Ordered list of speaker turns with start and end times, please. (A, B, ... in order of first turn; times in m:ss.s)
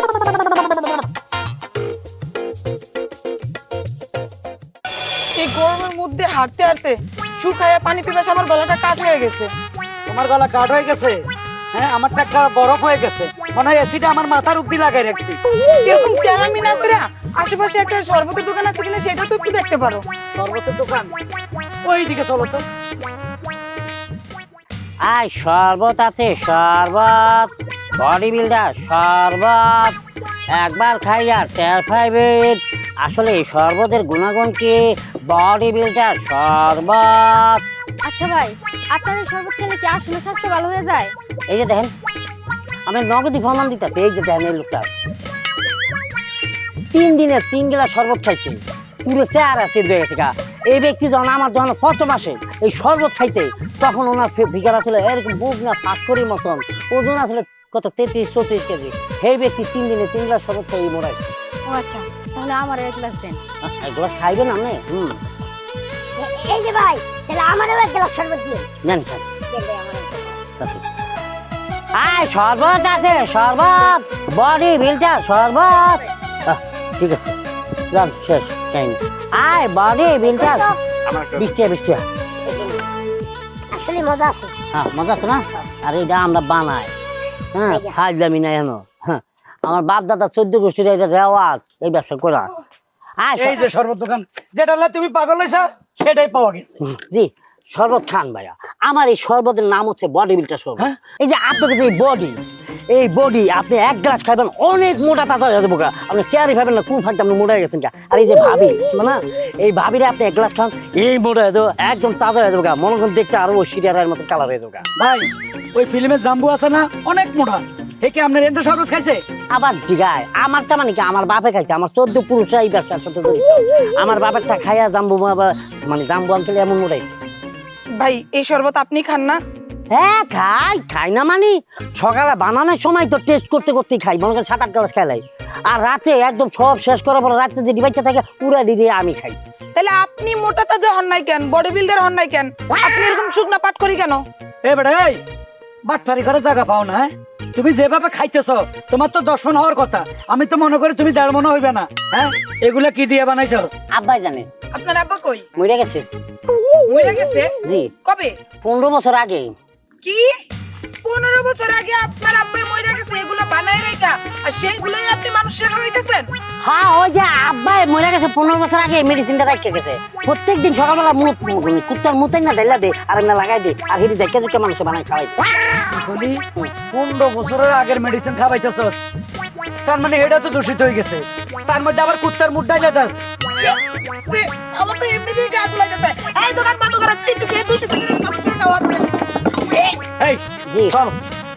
0:00.2-0:01.0 A
0:05.4-0:09.5 A
0:10.1-0:11.2 B
0:11.7-0:15.4 B
0:15.7-0:20.0 A
0:20.4-0:21.2 B
0:21.8-0:22.6 B
0:25.0-0:30.0 C
0:30.6-0:34.8 C
0:35.3-0:37.6 C
0:38.0-0:41.1 D
0:41.5-0:41.9 C
0:42.9-0:44.9 C
0:46.9-1:01.2 C
1:01.7-1:03.4 D
1:03.6-1:05.2 C
1:06.2-1:08.7 E
1:08.8-1:09.3 C
1:09.5-1:10.4 E
1:10.6-1:10.8 C
1:12.0-1:17.4 C
1:17.9-1:22.0 C
1:22.4-1:22.8 E
1:23.7-1:24.5 E
1:24.7-1:26.9 C
1:27.5-1:32.5 C
1:33.2-1:33.6 C
1:33.4-1:36.8 B
1:36.8-1:42.4 C
1:42.9-1:54.8 C
1:55.0-1:59.2 B
1:59.5-2:07.2 C
2:08.0-2:09.4 A
2:09.9-2:19.4 C
2:19.8-2:24.2 A
2:24.7-2:25.2 B
2:25.9-2:33.7 B
2:33.9-2:34.5 C
2:34.7-2:35.5 A
2:35.6-2:36.1 C
2:36.8-2:38.4 A
2:37.6-2:37.9 C
2:38.6-2:39.5 C
2:40.0-2:40.3 A
2:41.0-2:46.3 A
2:46.6-2:55.5 C
2:55.9-2:59.0 B
2:59.8-3:03.2 B
3:03.5-3:09.1 A
3:10.0-3:11.2 B
3:10.7-3:11.0 C